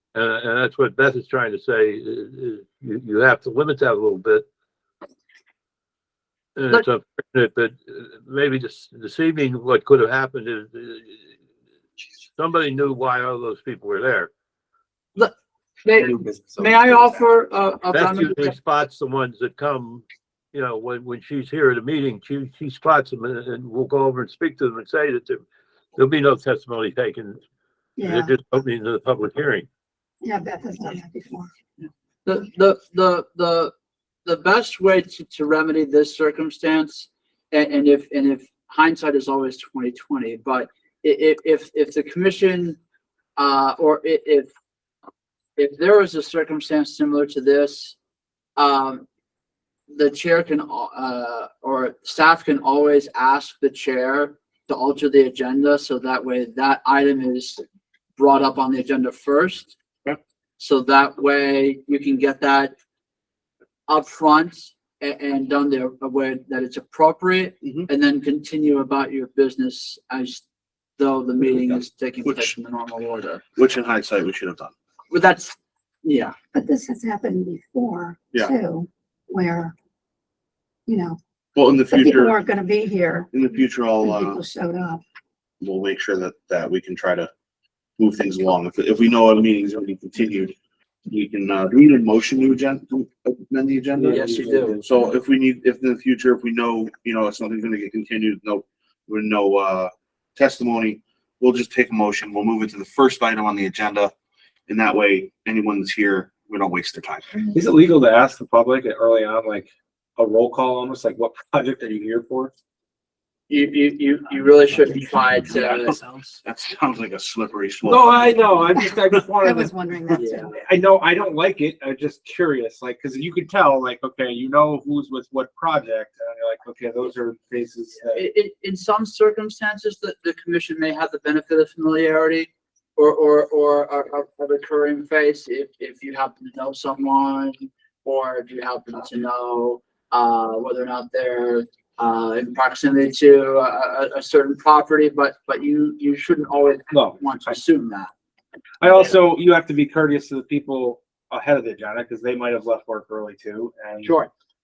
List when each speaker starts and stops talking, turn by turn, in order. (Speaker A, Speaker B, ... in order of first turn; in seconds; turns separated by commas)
Speaker A: 0.1-4.4, Speaker A: 6.5-11.2, Speaker A: 12.3-14.3, Speaker B: 15.8-18.6, Speaker C: 15.9-17.2, Speaker A: 17.9-25.4, Speaker A: 25.9-27.4, Speaker D: 28.0-28.3, Speaker A: 28.0-29.7, Speaker D: 30.2-31.5, Speaker B: 32.2-33.7, Speaker B: 34.2-42.8, Speaker B: 43.4-44.5, Speaker B: 45.6-48.0, Speaker B: 48.5-49.0, Speaker B: 49.9-57.6, Speaker B: 58.2-59.7, Speaker B: 60.6-62.7, Speaker B: 63.9-70.4, Speaker E: 67.6-67.9, Speaker B: 71.0-73.4, Speaker E: 71.6-72.5, Speaker E: 73.5-74.7, Speaker B: 75.1-76.3, Speaker D: 76.5-79.7, Speaker D: 80.9-81.2, Speaker E: 81.5-82.4, Speaker D: 81.8-85.0, Speaker E: 83.3-84.4, Speaker E: 85.6-87.3, Speaker E: 88.0-90.5, Speaker E: 91.1-94.2, Speaker C: 94.0-94.8, Speaker B: 94.1-94.8, Speaker E: 94.8-104.1, Speaker E: 104.7-107.3, Speaker C: 107.5-112.5, Speaker B: 113.5-116.0, Speaker E: 115.6-118.6, Speaker C: 117.8-119.7, Speaker D: 118.7-120.5, Speaker B: 120.1-120.5, Speaker C: 120.5-128.3, Speaker B: 128.0-148.1, Speaker C: 146.9-147.6, Speaker C: 148.8-154.2, Speaker B: 154.0-154.3